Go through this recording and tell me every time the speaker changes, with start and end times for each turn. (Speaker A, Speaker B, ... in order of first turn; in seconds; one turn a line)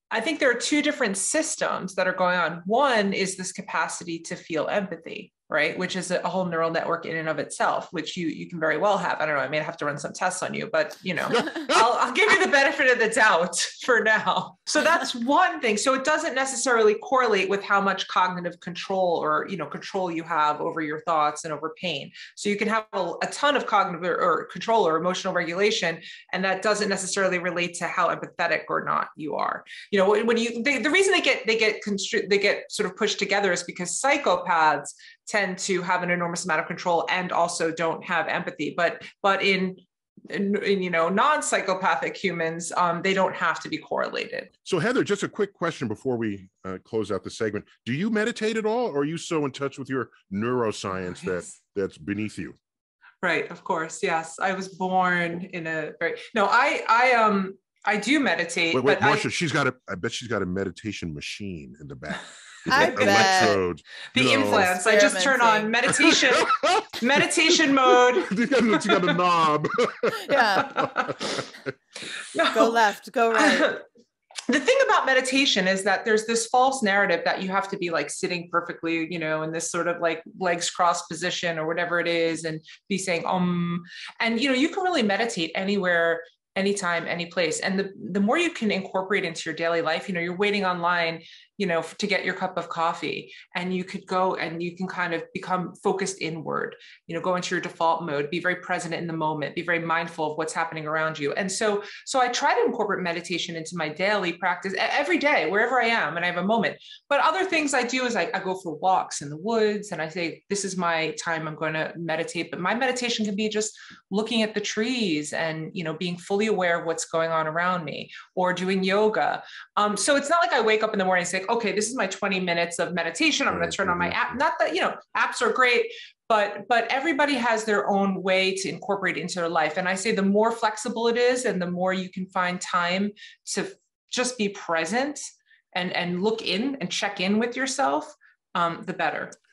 Speaker A: 0.1-44.5
Speaker B: 11.3-11.8
Speaker B: 44.6-52.6
Speaker A: 53.2-59.2
Speaker B: 58.7-64.8
Speaker C: 62.7-63.6
Speaker A: 62.8-63.6
Speaker A: 64.1-69.2
Speaker C: 64.3-65.8
Speaker B: 66.0-67.3
Speaker B: 67.9-71.3
Speaker C: 70.1-71.0
Speaker A: 70.5-71.4
Speaker A: 72.3-72.8
Speaker C: 72.5-73.8
Speaker A: 73.3-73.8
Speaker A: 74.5-139.3
Speaker B: 123.5-124.4